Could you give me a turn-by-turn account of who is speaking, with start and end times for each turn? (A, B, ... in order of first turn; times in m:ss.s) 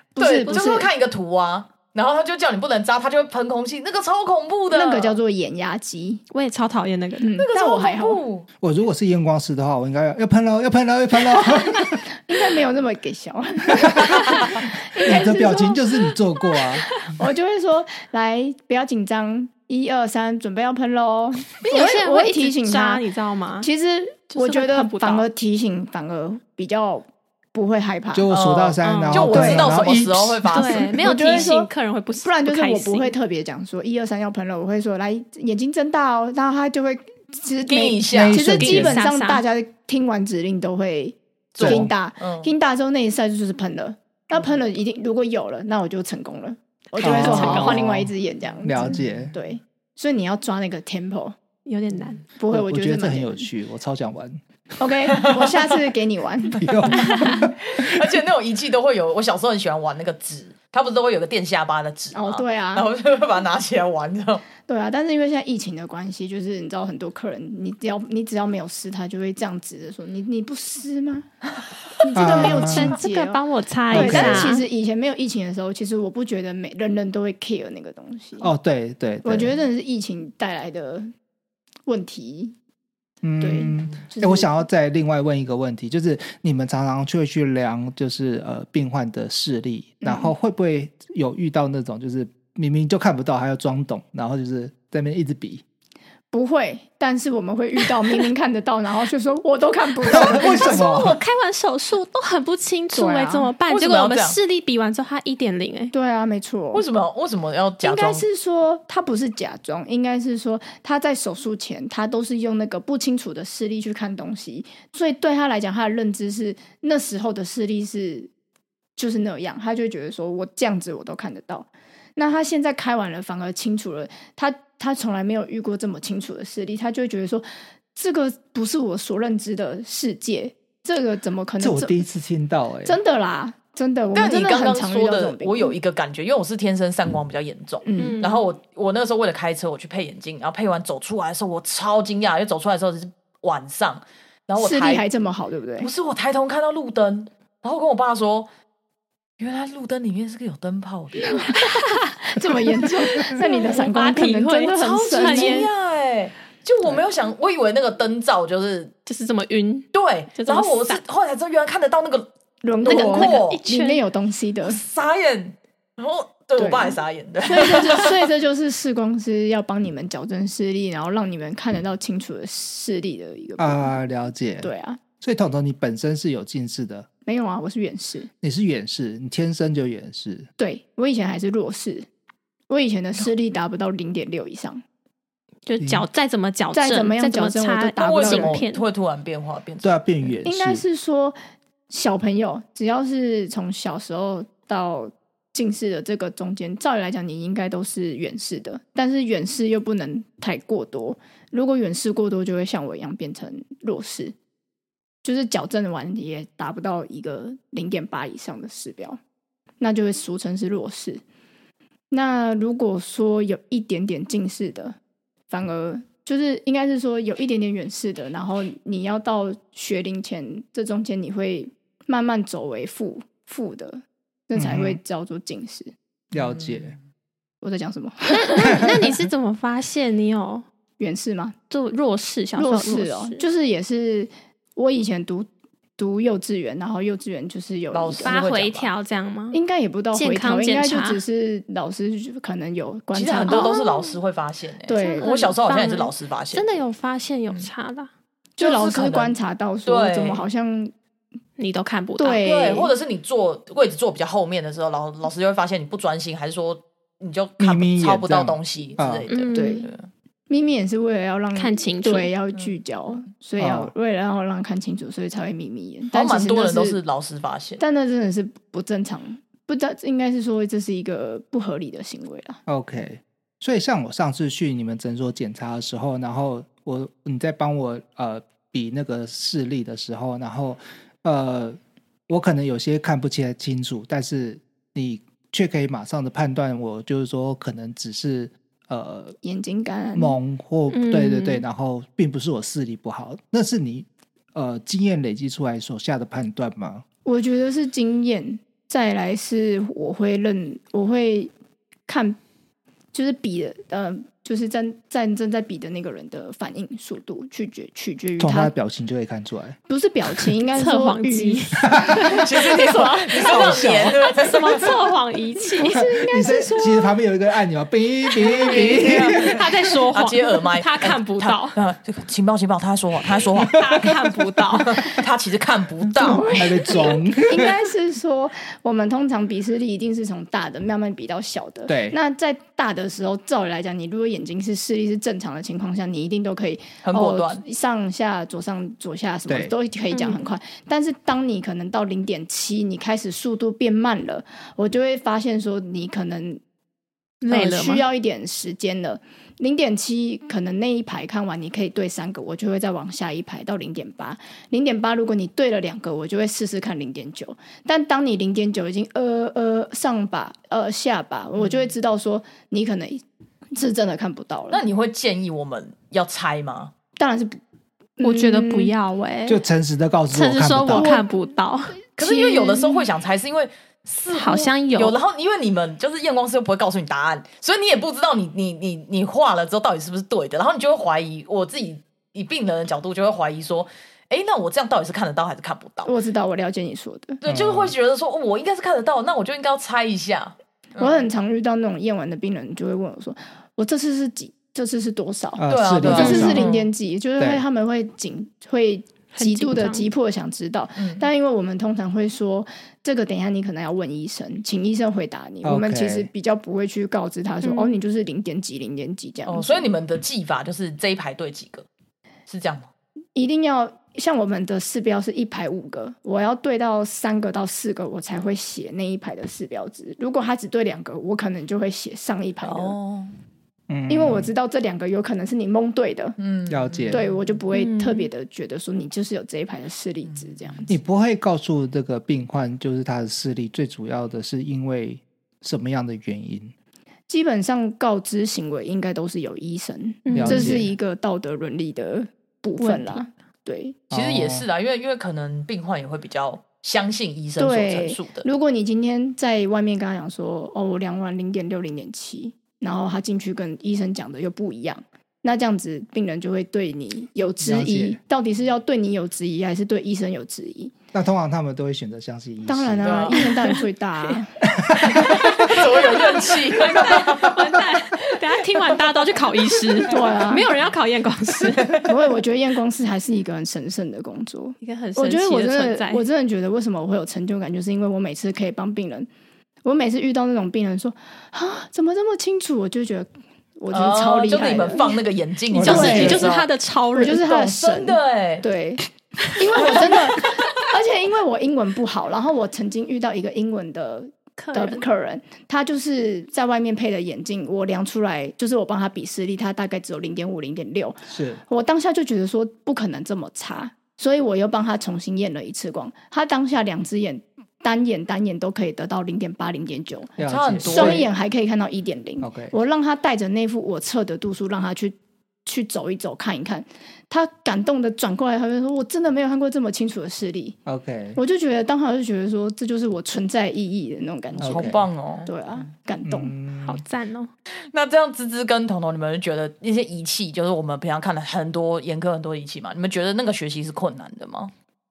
0:00.2-0:05.2 A
0:00.2-0:00.9 B
0:04.7-0:06.2 B
0:06.3-0:07.3 C
0:07.2-0:08.2 B
0:07.4-0:08.5 A
0:08.6-0:12.0 D
0:12.2-0:15.8 B
0:13.8-0:16.9 D
0:16.5-0:17.1 C
0:17.1-0:23.0 B
0:21.6-0:23.7 C
0:23.6-0:28.3 B
0:24.3-0:25.2 C
0:28.1-0:30.5 D
0:28.3-0:31.5 A
0:28.8-0:29.6 C
0:29.3-0:29.7 B
0:30.5-0:33.1 C
0:30.7-0:31.7 B
0:32.2-0:51.4 B
0:37.7-0:38.5 A
0:38.1-0:39.0 D
0:38.5-0:39.4 C
0:41.5-0:42.5 A
0:41.6-0:41.9 D
0:47.0-0:47.8 C
0:47.0-0:49.3 D
0:48.8-0:49.1 A
0:51.6-0:52.2 C
0:52.4-0:53.5 B
0:52.5-0:54.4 D
0:54.8-0:56.8 B
0:55.2-0:55.7 A
0:56.6-0:58.1 D
0:56.9-0:57.4 C
0:57.1-1:04.4 A
1:02.1-1:02.9 B
1:04.6-1:11.3 B
1:12.0-1:18.5 B
1:12.1-1:13.0 D
1:12.3-1:14.6 C
1:13.9-1:14.6 D
1:18.4-1:19.5 D
1:19.2-1:21.1 B
1:21.8-1:22.5 B
1:23.2-1:35.6 D
1:23.4-1:24.6 B
1:30.0-1:30.3 B
1:36.3-1:40.8 B
1:40.1-1:41.2 D
1:40.2-1:45.9 C
1:42.9-1:43.5 B
1:43.7-1:44.4 A
1:45.9-1:46.8 B
1:46.7-1:48.2 A
1:47.8-1:58.3 B
1:59.0-2:12.0 B
2:11.6-2:13.0 D
2:12.8-2:15.8 B
2:14.1-2:25.0 A
2:17.8-2:18.2 B
2:18.0-2:18.4 C
2:24.6-2:25.9 B
2:25.8-2:28.5 A
2:29.4-2:31.5 A
2:31.3-2:31.6 B
2:31.5-2:32.1 C
2:32.2-2:35.6 B
2:33.0-2:35.7 C
2:34.6-2:38.9 A
2:39.0-2:41.0 C
2:39.9-2:42.3 A
2:42.6-2:44.8 B
2:42.8-2:43.6 A
2:42.8-2:44.0 C
2:44.6-2:48.3 A
2:46.6-2:54.0 B
2:53.6-2:54.7 D
2:54.6-2:55.0 B
2:55.2-2:57.1 D
2:57.2-2:58.3 B
2:58.4-3:00.5 D
3:00.6-3:02.1 B
3:02.7-3:04.8 B
3:05.7-3:08.8 C
3:05.8-3:06.0 D
3:06.7-3:08.6 B
3:08.0-3:10.3 A
3:09.8-3:10.8 D
3:10.4-3:11.4 B
3:11.9-3:24.3 B
3:25.2-3:29.2 B
3:29.8-3:31.2 B
3:32.1-3:35.0 B
3:35.5-3:45.9 B
3:44.5-3:45.0 D
3:46.3-3:46.9 D
3:46.4-3:46.9 A
3:47.6-3:48.9 B
3:48.3-3:50.6 C
3:51.0-3:51.6 B
3:51.7-3:53.4 C
3:52.6-3:58.4 B
3:57.9-3:58.9 A
3:58.2-3:59.6 C
3:59.5-4:03.8 B
4:00.1-4:01.2 C
4:03.1-4:06.8 A
4:03.4-4:04.2 C
4:04.9-4:05.3 B
4:05.0-4:08.1 C
4:08.6-4:10.4 A
4:08.6-4:10.9 B
4:11.6-4:12.4 C
4:12.2-4:12.9 B
4:12.4-4:20.1 A
4:17.6-4:19.3 D
4:19.3-4:19.9 C
4:19.5-4:19.9 B
4:20.5-4:27.0 B
4:21.5-4:22.3 C
4:23.6-4:23.9 D
4:26.1-4:27.8 A
4:27.8-4:32.6 B
4:32.7-4:49.4 D
4:49.4-4:50.4 B
4:50.1-4:57.0 D
4:50.9-4:51.6 C
4:57.2-5:01.5 B
5:02.1-5:02.4 B
5:03.1-5:08.7 B
5:08.4-5:09.8 D
5:09.9-5:11.9 B
5:10.7-5:17.2 C
5:11.9-5:14.2 D
5:12.2-5:14.9 A
5:15.8-5:19.7 D
5:18.4-5:21.8 C
5:18.5-5:23.9 A
5:23.7-5:25.2 C
5:24.8-5:27.0 A
5:26.2-5:46.6 B
5:26.5-5:27.8 D
5:31.9-5:32.2 D
5:37.0-5:37.6 A
5:39.5-5:39.7 D
5:40.1-5:40.4 C
5:47.4-5:48.0 C
5:47.5-6:04.8 B
6:04.7-6:06.9 A
6:07.2-6:07.6 B
6:08.2-6:08.9 B
6:08.2-6:09.6 C
6:09.5-6:11.1 D
6:10.3-6:12.0 C
6:10.9-6:11.2 B
6:12.2-6:26.1 A
6:12.2-6:13.0 B
6:14.3-6:15.2 C
6:26.0-6:27.4 B
6:27.4-6:31.2 A
6:27.4-6:27.9 D
6:31.0-6:49.9 B
6:35.6-6:36.7 D
6:35.7-6:36.9 A
6:36.1-6:36.6 C
6:37.4-6:37.6 D
6:39.3-6:40.1 C
6:41.0-6:41.3 A
6:45.6-6:46.3 D
6:47.6-6:47.9 C
6:49.4-6:51.8 A
6:52.5-6:52.9 A
6:53.3-7:03.0 B
7:02.6-7:03.3 A
7:03.9-7:04.5 D
7:04.1-7:06.4 B
7:06.4-7:07.4 A
7:06.7-7:07.2 D
7:07.1-7:10.9 B
7:07.7-7:08.3 C
7:10.2-7:10.8 A
7:10.9-7:16.7 D
7:17.3-7:24.0 B
7:20.2-7:20.8 C
7:20.3-7:20.9 D
7:22.8-7:23.3 C
7:24.1-7:24.6 D
7:24.1-7:28.5 A
7:27.6-7:41.0 B
7:37.6-7:38.2 D
7:41.1-7:43.3 D
7:42.7-7:44.7 B
7:43.0-7:43.5 A
7:44.7-7:45.7 D
7:45.0-7:47.8 A
7:45.2-7:52.1 C
7:50.1-7:50.7 B
7:52.0-7:59.3 B
7:54.8-7:56.2 C
7:59.8-8:05.2 B
8:03.9-8:06.7 A
8:05.7-8:06.5 D
8:05.8-8:07.4 C
8:05.8-8:06.5 B
8:07.1-8:40.8 B
8:07.4-8:08.6 A
8:09.8-8:10.4 A
8:14.6-8:15.0 C
8:21.3-8:21.6 D
8:30.4-8:31.3 D
8:30.5-8:31.3 A
8:32.4-8:32.7 D
8:40.8-8:41.4 D
8:41.4-8:46.5 B
8:44.6-8:45.5 A
8:44.6-8:45.0 D
8:46.2-8:47.0 D
8:46.8-8:47.5 C
8:47.8-8:54.7 A